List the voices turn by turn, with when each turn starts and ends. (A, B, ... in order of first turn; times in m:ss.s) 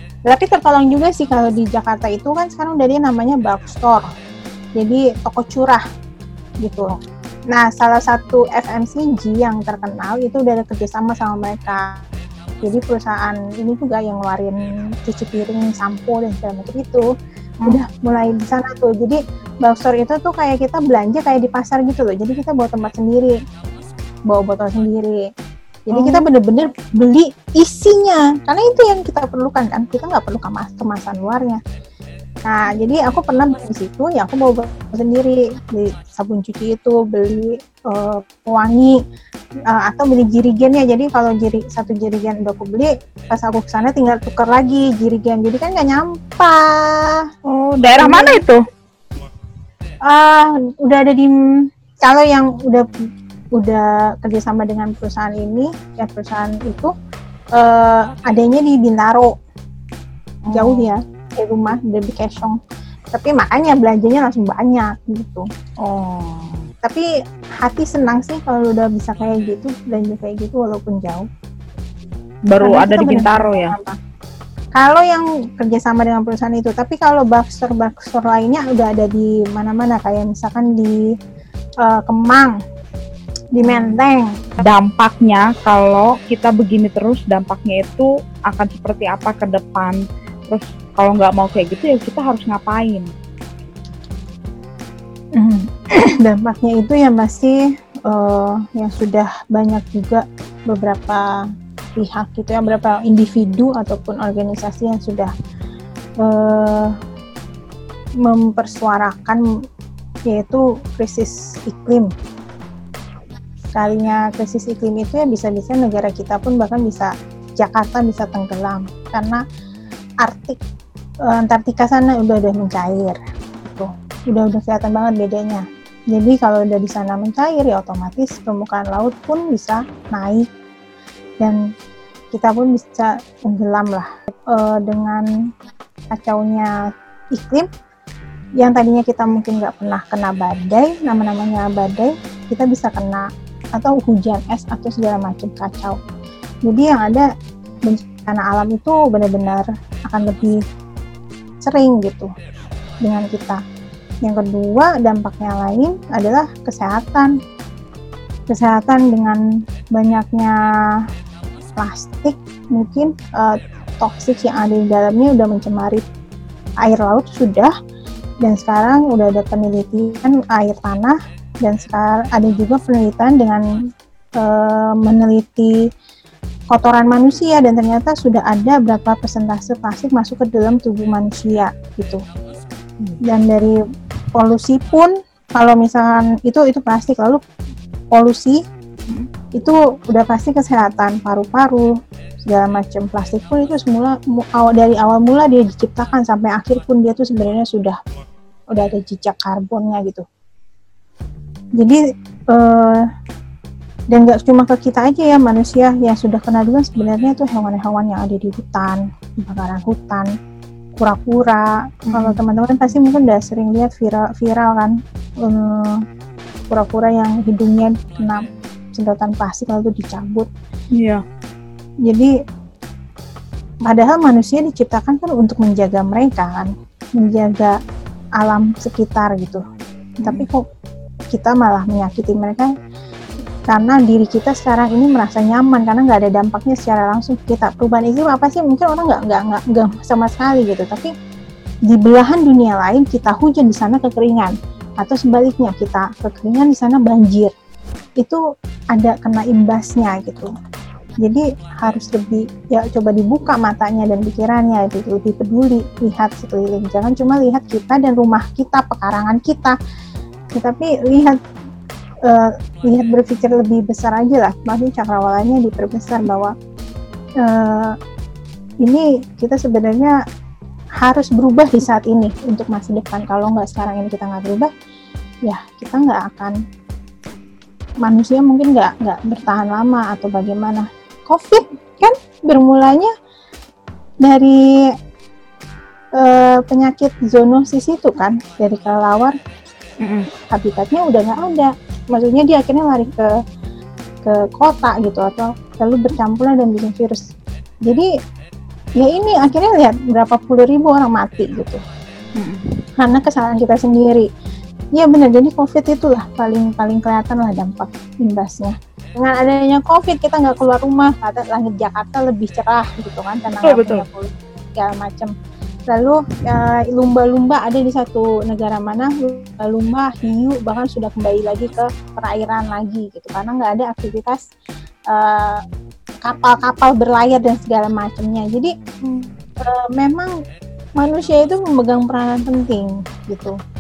0:00.3-0:04.1 A
0:04.8-0:05.8 A
0:06.6-0:07.0 A
0:07.5-0:12.0 A
0:12.6-0:17.1 A
0:17.7-0:23.4 A
0:24.3-0:25.3 A
0:25.9-0:31.6 A
0:25.9-0:26.2 B
0:32.4-0:39.0 A
0:39.7-0:47.2 A
0:47.5-0:48.6 B
0:48.0-0:48.4 A
0:50.1-0:52.8 A
0:53.6-0:56.9 A
0:57.6-0:59.3 A
1:00.5-1:00.9 B
1:00.5-1:02.6 A
1:03.1-1:05.4 A
1:05.8-1:06.7 B
1:07.6-1:11.3 A
1:12.5-1:13.7 B
1:12.6-1:14.0 A
1:14.8-1:21.0 A
1:21.8-1:22.6 A
1:23.6-1:24.4 A
1:23.6-1:23.9 B
1:24.6-1:33.1 B
1:35.4-1:41.3 A
1:42.0-1:45.3 A
1:46.2-1:46.9 A
1:48.2-1:49.4 A
1:50.3-1:52.1 A
1:53.8-1:59.4 A
2:00.2-2:00.6 A
2:01.3-2:10.5 A
2:12.3-2:15.2 A
2:16.1-2:16.7 A
2:17.4-2:17.7 A
2:18.6-2:23.2 A
2:23.8-2:26.0 A
2:26.7-2:27.3 A
2:27.9-2:30.6 A
2:31.6-2:32.3 A
2:33.0-2:33.6 A
2:34.2-2:37.3 A
2:38.5-2:39.4 A
2:39.9-2:40.5 A
2:41.8-2:46.0 A
2:46.8-2:47.7 A
2:48.4-2:53.6 A
2:54.4-2:55.7 A
2:56.7-3:02.2 A
3:03.3-3:03.8 A
3:04.3-3:07.4 A
3:08.1-3:08.6 A
3:09.6-3:11.9 A
3:12.5-3:18.0 A
3:18.7-3:20.2 A
3:22.5-3:23.1 A
3:24.1-3:30.3 A
3:31.0-3:36.0 A
3:32.1-3:32.4 B
3:36.7-3:40.5 A
3:41.0-3:41.2 B
3:42.0-3:42.3 A
3:43.9-3:47.8 A
3:48.4-3:49.6 A
3:50.2-3:50.6 A
3:51.3-3:52.7 A
3:53.7-4:01.1 A
4:01.9-4:07.5 A
4:08.9-4:10.5 A
4:11.2-4:19.8 A
4:20.6-4:21.4 A
4:22.3-4:26.5 A
4:27.4-4:28.0 A
4:28.8-4:30.2 A
4:31.0-4:34.7 A
4:35.5-4:36.6 A
4:38.0-4:43.1 A
4:44.2-4:44.6 A
4:46.2-4:49.4 A
4:50.5-4:53.3 A
4:54.2-4:57.2 A
4:59.0-5:01.8 A
5:03.0-5:04.3 A
5:05.0-5:15.3 A
5:13.6-5:14.0 B
5:15.9-5:24.4 A
5:25.1-5:25.6 A
5:26.2-5:30.3 A
5:31.0-5:33.6 A